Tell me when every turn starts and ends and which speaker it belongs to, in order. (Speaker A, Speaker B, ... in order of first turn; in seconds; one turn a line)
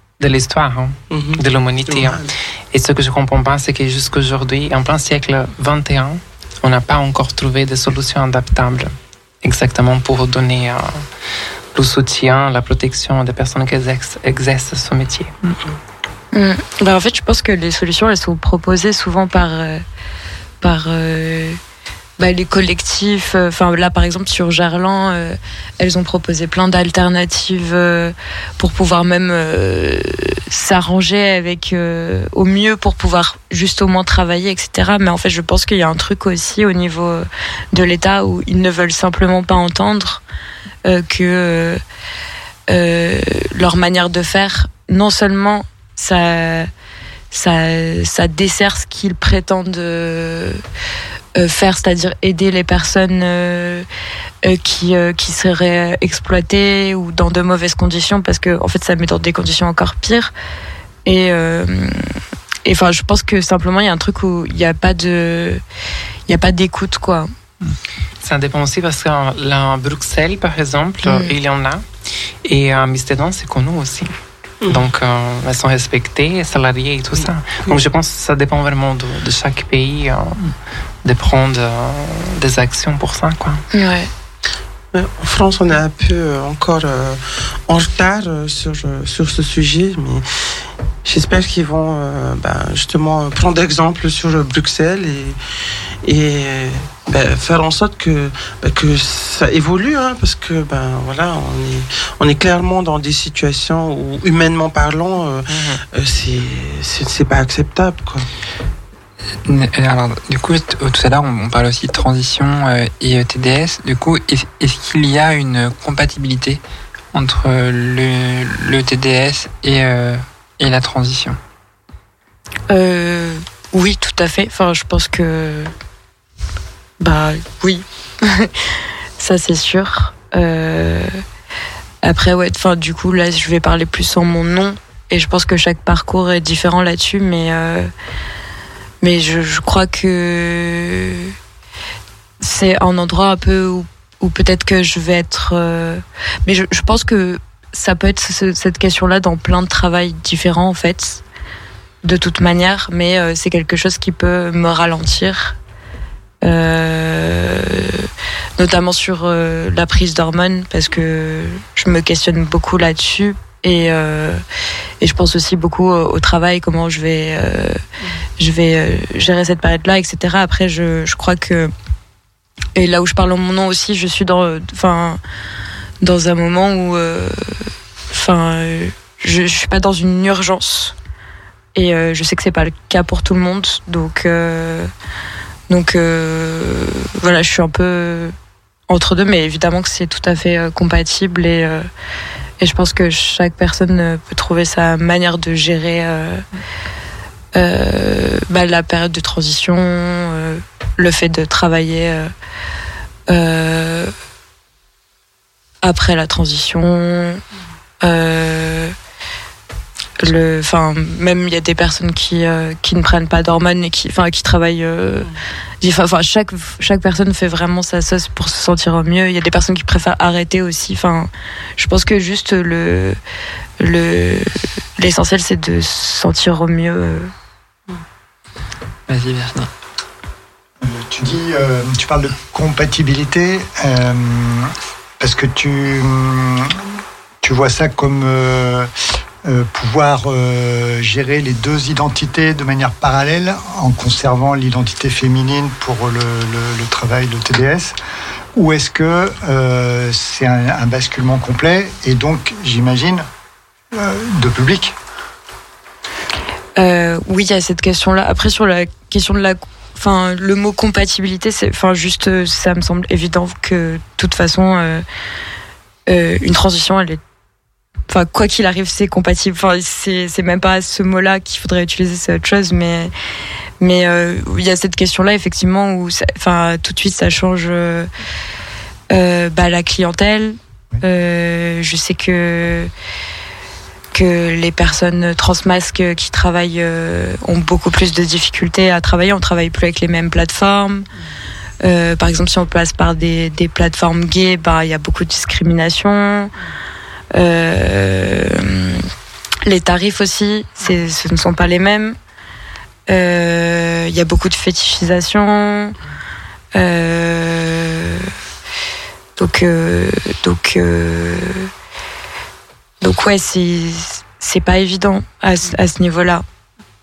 Speaker A: 0.2-8.9
Speaker B: 1.1-2.3
Speaker A: 9.4-11.0
Speaker A: 11.7-15.3
Speaker C: 16.3-19.8
Speaker C: 20.6-21.6
Speaker C: 22.2-40.2
Speaker C: 40.8-41.8
Speaker C: 42.7-46.7
Speaker C: 47.3-50.6
Speaker C: 51.4-53.9
Speaker C: 54.4-60.3
Speaker C: 61.1-65.6
Speaker C: 66.3-67.3
Speaker A: 68.2-71.8
Speaker C: 71.0-71.3
Speaker A: 72.4-74.1
Speaker B: 74.7-74.9
Speaker A: 74.7-80.4
Speaker A: 81.0-83.6
Speaker C: 83.7-84.1
Speaker B: 84.9-90.2
Speaker B: 91.0-95.4
Speaker B: 96.0-108.3
Speaker A: 105.5-105.8
Speaker D: 109.5-116.6
Speaker D: 117.1-121.4
Speaker C: 122.7-125.7
Speaker C: 127.0-128.5
Speaker C: 129.2-131.2
Speaker C: 132.0-137.9
Speaker C: 139.0-141.3
Speaker C: 142.4-151.2
Speaker C: 152.0-155.6
Speaker C: 156.4-164.4
Speaker C: 165.0-167.8
Speaker C: 168.4-171.7
Speaker C: 172.8-175.2
Speaker C: 176.0-180.9
Speaker C: 181.8-184.9
Speaker C: 185.7-188.3
Speaker C: 188.9-191.9
Speaker C: 192.6-196.5
Speaker C: 197.5-202.3
Speaker C: 203.3-204.1
Speaker C: 205.8-207.4
Speaker C: 208.0-208.9
Speaker C: 210.2-215.3
Speaker C: 215.8-223.2
Speaker C: 223.8-227.3
Speaker D: 229.1-229.7
Speaker E: 230.8-238.9
Speaker E: 239.4-248.0
Speaker E: 248.6-253.3
Speaker E: 253.9-254.9
Speaker C: 256.8-265.0
Speaker C: 266.1-267.2
Speaker C: 268.1-273.1
Speaker C: 273.8-278.1
Speaker C: 279.1-282.9
Speaker C: 284.1-291.1
Speaker C: 291.8-296.5
Speaker C: 297.3-299.1
Speaker C: 299.6-302.2
Speaker C: 303.1-306.0
Speaker C: 306.7-308.3
Speaker C: 309.4-311.7
Speaker C: 313.0-316.4